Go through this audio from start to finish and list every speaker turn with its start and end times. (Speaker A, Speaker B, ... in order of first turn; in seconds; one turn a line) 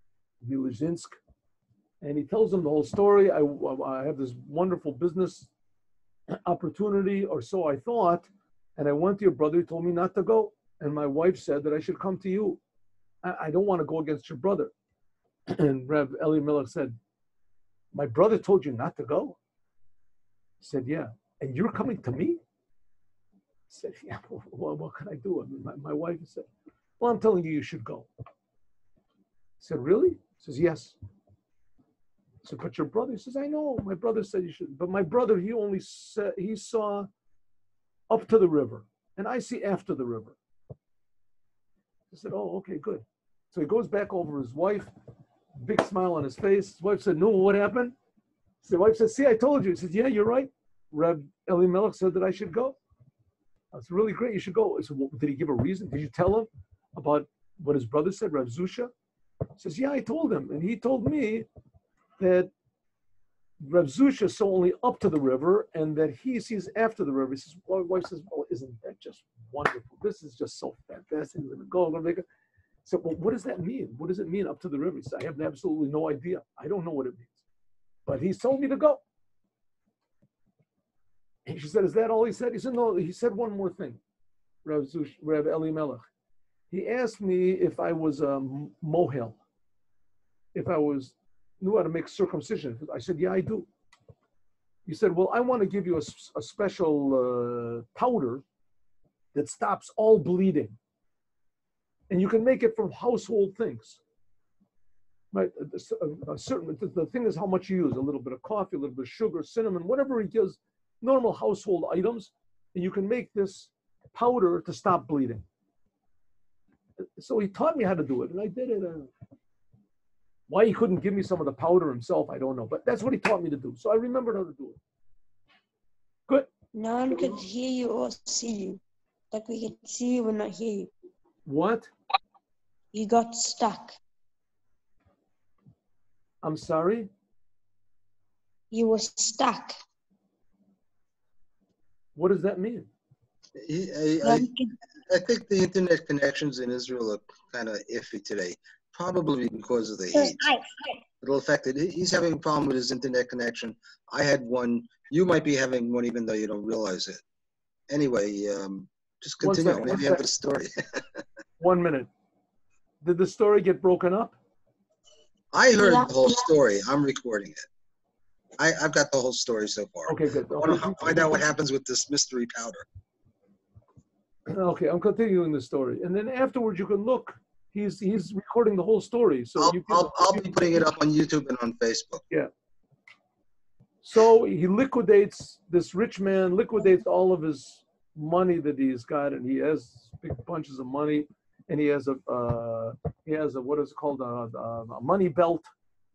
Speaker A: 0.4-1.2
Speaker A: 2.0-5.5
Speaker A: 6.3-12.6
Speaker A: 13.2-14.7
Speaker A: 15.5-17.0
Speaker A: 17.9-19.4
Speaker A: 20.6-22.4
Speaker A: 23.7-26.5
Speaker A: 27.0-28.1
Speaker A: 29.6-31.0
Speaker A: 32.4-37.1
Speaker A: 38.1-40.4
Speaker A: 42.1-44.9
Speaker A: 45.6-47.9
Speaker A: 48.6-52.8
Speaker A: 53.7-58.9
Speaker A: 59.6-61.5
Speaker A: 62.2-62.5
Speaker A: 63.6-72.2
Speaker A: 72.8-77.4
Speaker A: 78.0-79.0
Speaker A: 81.5-84.0
Speaker A: 84.6-86.0
Speaker A: 86.7-89.4
Speaker A: 90.5-93.7
Speaker A: 94.8-98.4
Speaker A: 99.3-100.8
Speaker A: 102.1-104.0
Speaker A: 105.3-115.4
Speaker A: 117.2-119.1
Speaker A: 120.5-124.8
Speaker B: 126.7-128.8
Speaker B: 129.3-130.9
Speaker A: 131.4-131.9
Speaker B: 132.9-133.9
Speaker A: 136.4-137.1
Speaker B: 138.7-139.7
Speaker A: 142.2-142.9
Speaker C: 143.6-144.5
Speaker B: 144.2-144.7
Speaker C: 145.1-150.5
Speaker B: 150.1-150.7
Speaker C: 151.2-157.2
Speaker C: 157.9-160.9
Speaker A: 159.4-160.2
Speaker A: 161.6-162.1
Speaker A: 163.0-164.3
Speaker C: 165.5-167.7
Speaker B: 165.8-166.5
Speaker C: 168.6-172.8
Speaker A: 170.1-171.4
Speaker A: 174.5-180.8
Speaker C: 179.6-182.2
Speaker A: 184.0-195.7